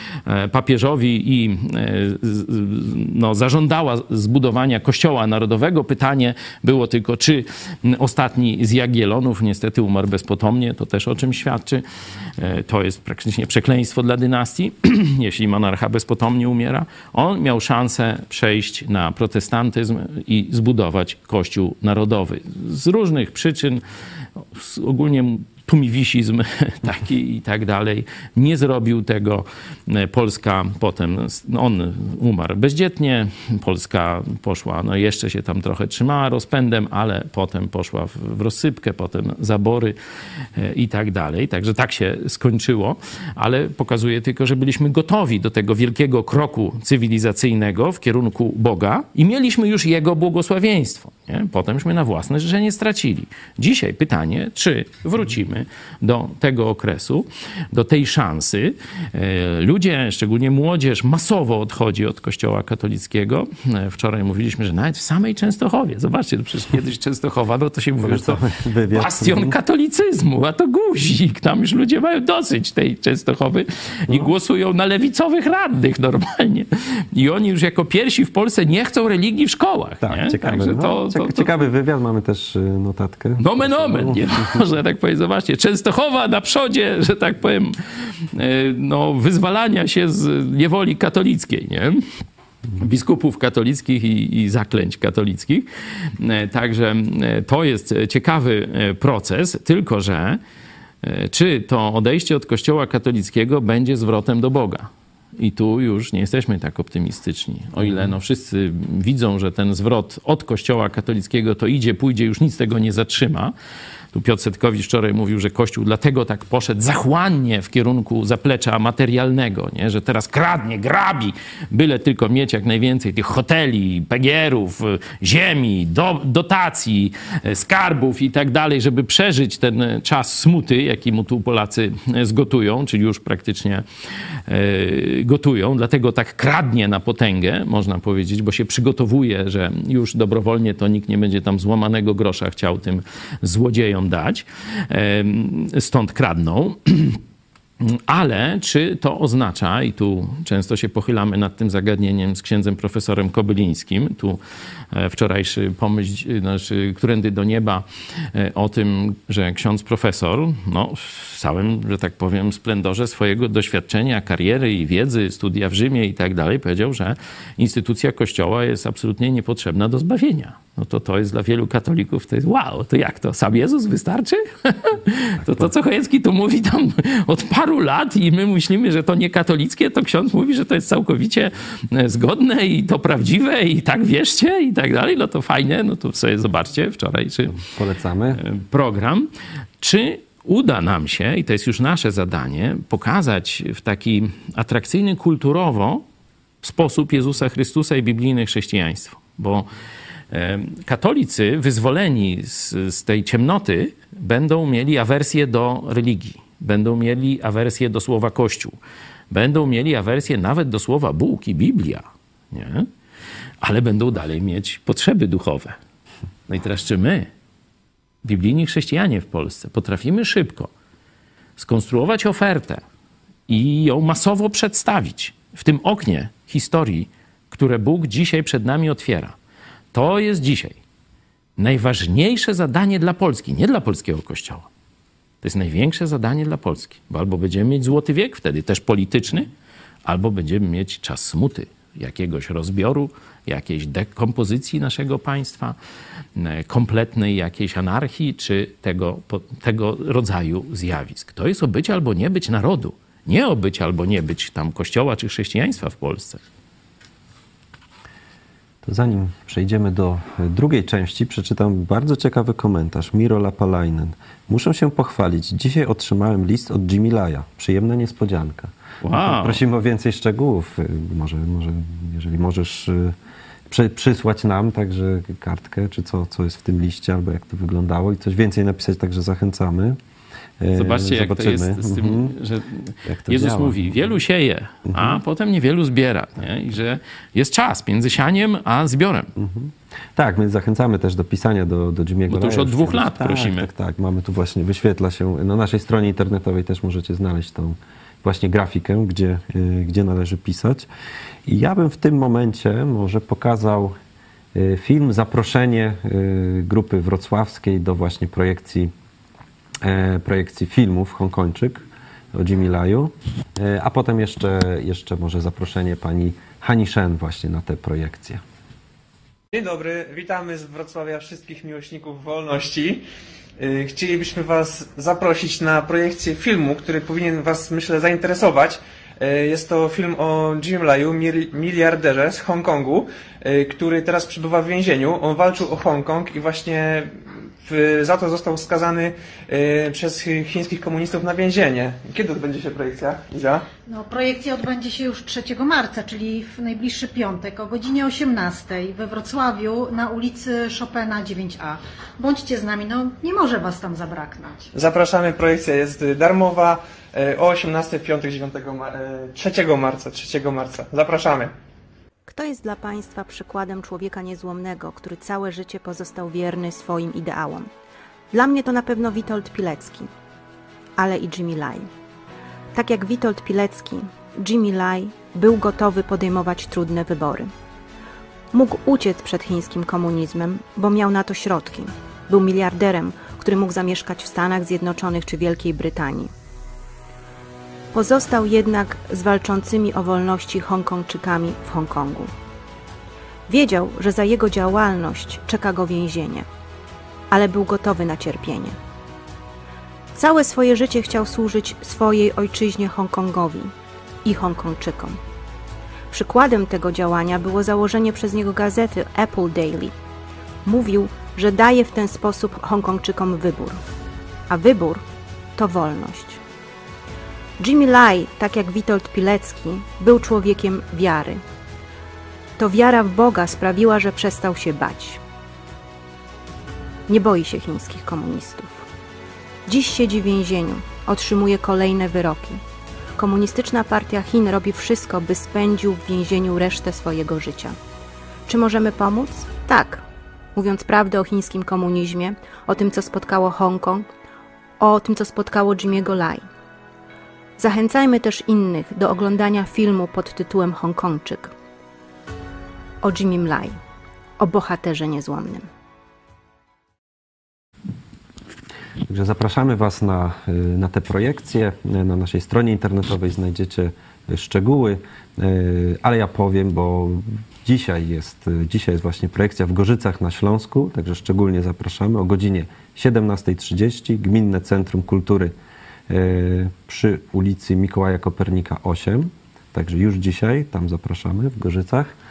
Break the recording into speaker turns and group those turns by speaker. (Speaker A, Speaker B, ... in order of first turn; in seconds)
Speaker A: 0.3-11.8, 12.4-23.8, 24.5-39.9, 40.5-81.6, 83.4-92.0, 92.8-95.7, 96.2-100.4, 101.0-113.5, 114.1-133.8, 134.5-147.2, 147.8-154.4, 154.9-187.6, 188.3-189.3, 189.8-196.0, 196.6-199.7, 200.3-208.8, 209.3-212.9, 213.6-215.8, 216.5-217.3, 218.2-220.7, 221.6-222.8, 223.5-229.3, 229.9-230.8, 231.6-234.7, 235.4-239.5, 240.0-245.8, 246.3-256.4, 269.0-269.6, 280.7-289.3, 292.3-293.7
Speaker B: 68.0-69.5, 80.0-84.6, 107.8-108.1, 187.6-188.4, 258.8-273.1, 273.7-280.0, 280.6-282.3, 283.1-283.9, 284.9-285.2, 289.4-300.9, 301.4-303.9, 304.5-308.9, 309.8-318.4, 459.1-475.5, 476.1-482.1
Speaker C: 319.5-323.0, 323.6-343.6, 354.7-361.5
Speaker D: 343.9-354.7
Speaker E: 362.3-367.7, 368.3-370.1, 371.0-371.9, 372.7-377.5, 378.5-386.3, 387.9-392.3, 393.5-396.4, 397.3-398.8, 400.1-403.7, 404.2-405.2, 406.1-409.9, 410.6-413.8, 414.5-415.0, 415.6-416.4, 417.6-421.4, 422.6-425.2, 427.1-428.7, 429.6-432.6, 433.1-437.8, 438.5-440.0, 440.5-444.1, 444.8-446.4, 447.6-451.5, 453.0-453.8, 454.4-455.7